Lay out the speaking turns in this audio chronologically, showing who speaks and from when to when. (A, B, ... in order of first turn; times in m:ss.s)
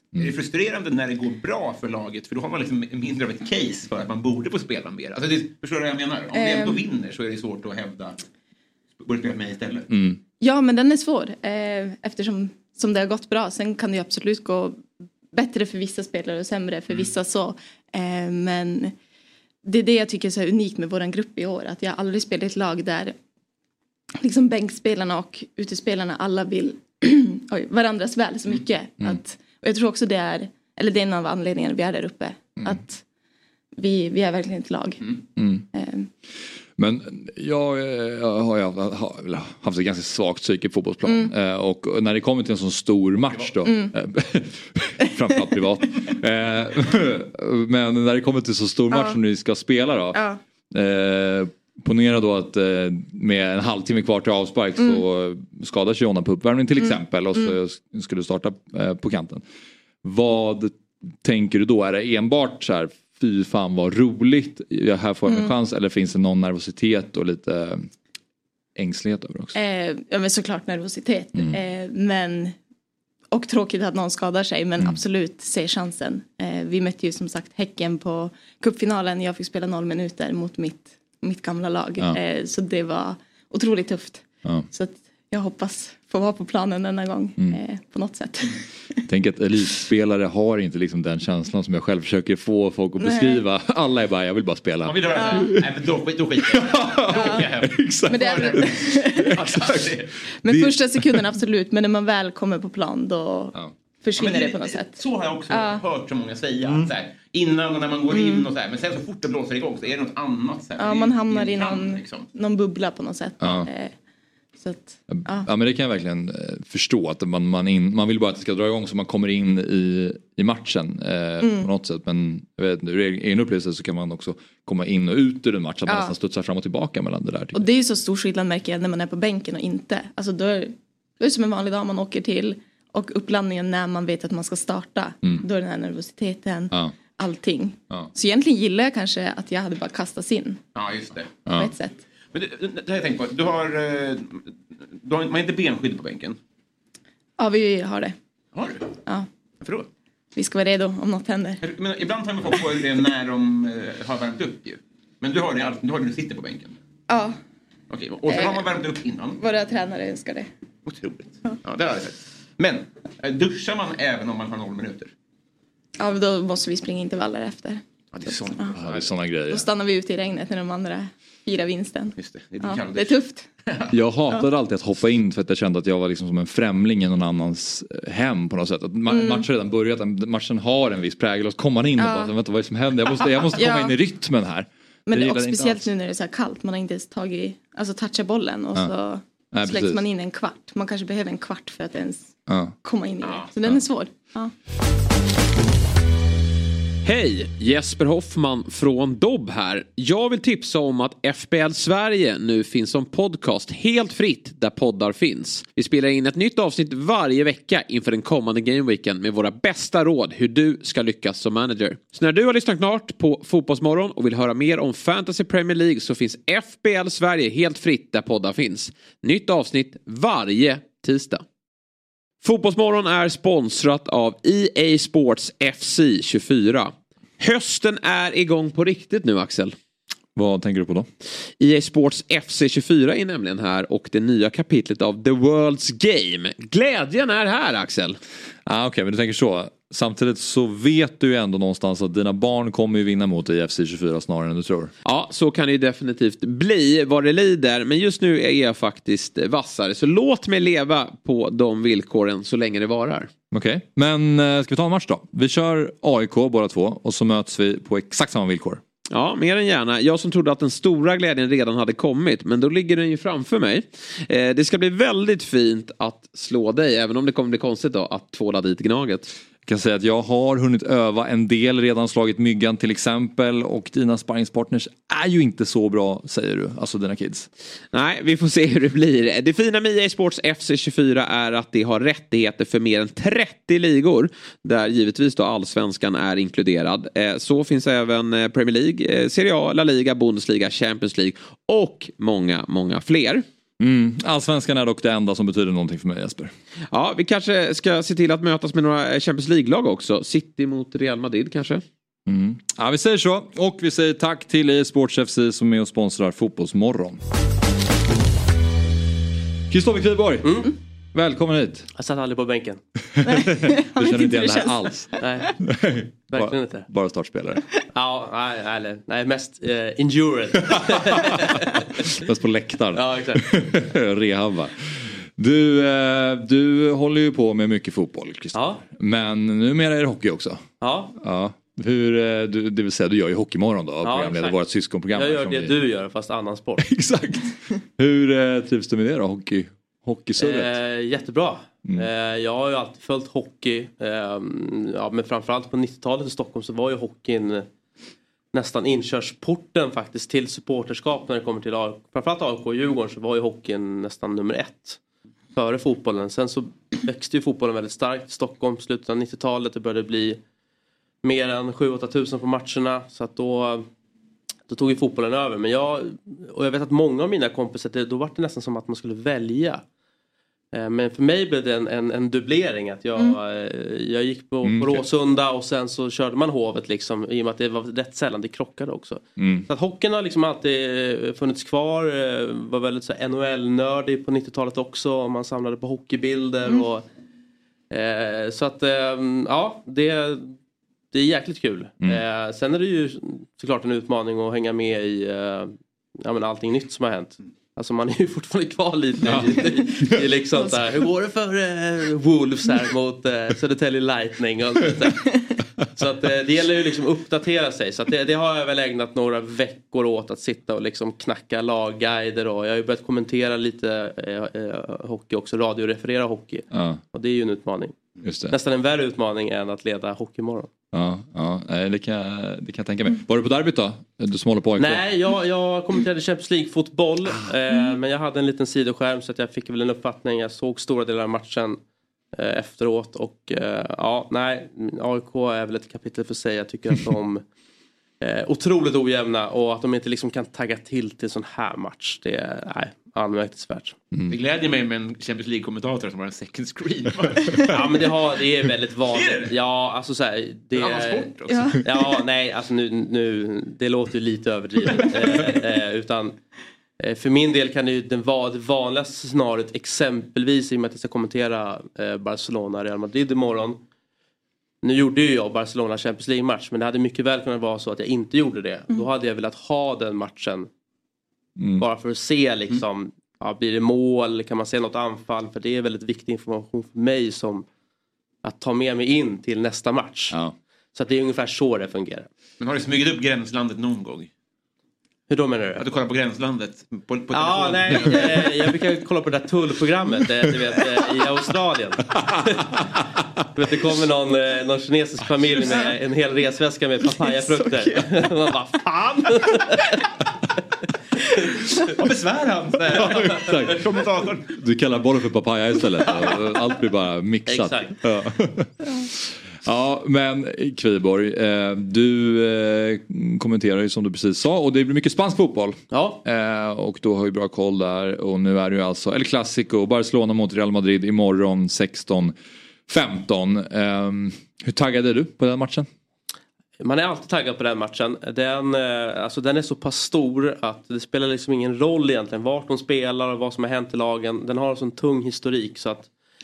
0:00.2-0:08.2 A
0:06.3-0:06.8 B
0:09.0-0:09.9 A
0:09.9-0:10.2 C
0:10.4-0:18.9 B
0:19.6-0:23.2 B
0:24.2-0:33.0 B
0:33.8-0:35.1 B
0:35.4-0:35.7 C
0:35.7-0:36.1 B
0:36.8-0:50.2 C
0:41.0-0:41.3 B
0:43.6-0:43.9 B
0:48.9-0:49.2 B
0:50.1-0:50.4 B
0:50.7-0:59.4 C
0:56.8-0:57.6 B
1:00.0-1:07.9 C
1:08.8-1:09.6 C
1:09.5-1:12.6 B
1:13.3-1:28.6 B
1:29.1-1:35.6 C
1:33.0-1:33.4 B
1:34.8-1:40.1 A
1:35.2-1:35.5 B
1:36.5-1:39.9 C
1:37.0-1:37.5 B
1:38.1-1:39.6 B
1:40.4-1:45.8 B
1:40.4-1:41.2 C
1:44.2-1:52.3 A
1:48.1-1:48.5 B
1:50.8-1:54.0 B
1:53.4-1:53.7 C
1:54.6-1:55.5 B
1:55.1-2:07.6 C
2:01.4-2:01.7 B
2:05.9-2:06.2 B
2:07.5-2:20.6 B
2:20.8-2:21.3 A
2:21.5-2:21.7 C
2:21.5-2:22.0 B
2:22.3-2:26.4 A
2:27.4-2:28.2 B
2:28.6-2:28.9 A
2:29.6-2:29.9 A
2:30.4-2:31.6 B
2:31.6-2:36.8 A
2:37.1-2:37.4 B
2:37.9-2:39.4 A
2:38.3-2:38.7 B
2:39.4-2:40.5 B
2:40.9-2:45.1 A
2:46.0-2:48.7 B
2:48.1-2:49.1 A
2:48.8-2:49.7 C
2:49.5-2:53.4 B
2:52.2-2:53.9 A
2:53.9-3:05.9 C
2:59.1-2:59.5 B
3:02.0-3:02.3 B
3:03.1-3:04.0 B
3:05.1-3:14.5 B
3:09.5-3:10.0 C
3:12.5-3:12.8 C
3:13.2-3:13.5 A
3:17.0-3:41.4 D
3:42.4-3:49.8 D
3:50.4-3:51.1 C
3:51.6-3:58.2 D
3:58.7-4:04.9 C
4:05.0-4:13.3 D
4:13.5-4:18.8 C
4:19.1-4:29.3 D
4:29.7-4:37.5 C
4:37.9-4:53.4 D
4:53.8-4:56.5 C
4:56.9-5:01.8 D
5:02.3-5:07.2 C
5:09.7-5:11.9 C
5:10.4-5:10.7 E
5:12.0-5:12.8 E
5:13.2-5:15.0 B
5:13.5-5:17.6 C
5:15.2-5:15.5 E
5:16.3-5:16.9 E
5:17.9-5:22.0 E
5:21.1-5:21.5 C
5:22.1-5:35.8 C
5:22.9-5:23.5 E
5:28.5-5:28.8 E
5:30.8-5:31.1 E
5:34.0-5:34.6 E
5:35.2-5:36.9 E
5:36.8-5:40.7 C
5:40.4-5:47.7 E
5:48.5-5:55.0 E
5:55.6-6:00.4 E
6:01.2-6:03.9 E
6:04.7-6:09.8 E
6:10.7-6:27.0 E
6:14.6-6:15.0 C
6:19.4-6:19.7 C
6:27.9-6:30.6 E
6:31.1-6:45.3 E
6:39.2-6:40.2 C
6:45.8-6:58.0 E
6:56.7-6:57.0 C
6:58.2-6:58.6 C
6:58.5-7:00.7 E
7:00.9-7:05.0 C
7:04.8-7:11.8 E
7:12.3-7:17.4 E
7:18.2-7:24.0 E
7:24.3-7:28.1 A
7:27.7-7:36.4 E
7:29.1-7:29.5 A
7:30.8-7:32.0 A
7:31.5-7:31.8 B
7:37.0-7:43.8 E
7:44.8-7:50.7 E
7:51.6-7:51.8 C
7:51.8-7:57.6 E
7:58.4-8:00.4 E
8:00.9-8:02.3 E
8:02.6-8:04.3 A
8:05.3-8:05.8 E
8:05.8-8:08.6 A
8:07.3-8:13.0 E
8:13.6-8:19.9 E
8:22.0-8:24.5 A
8:23.2-8:23.8 C
8:24.5-8:42.3 C
8:35.9-8:36.2 E
8:42.9-8:45.9 C
8:46.8-8:56.1 E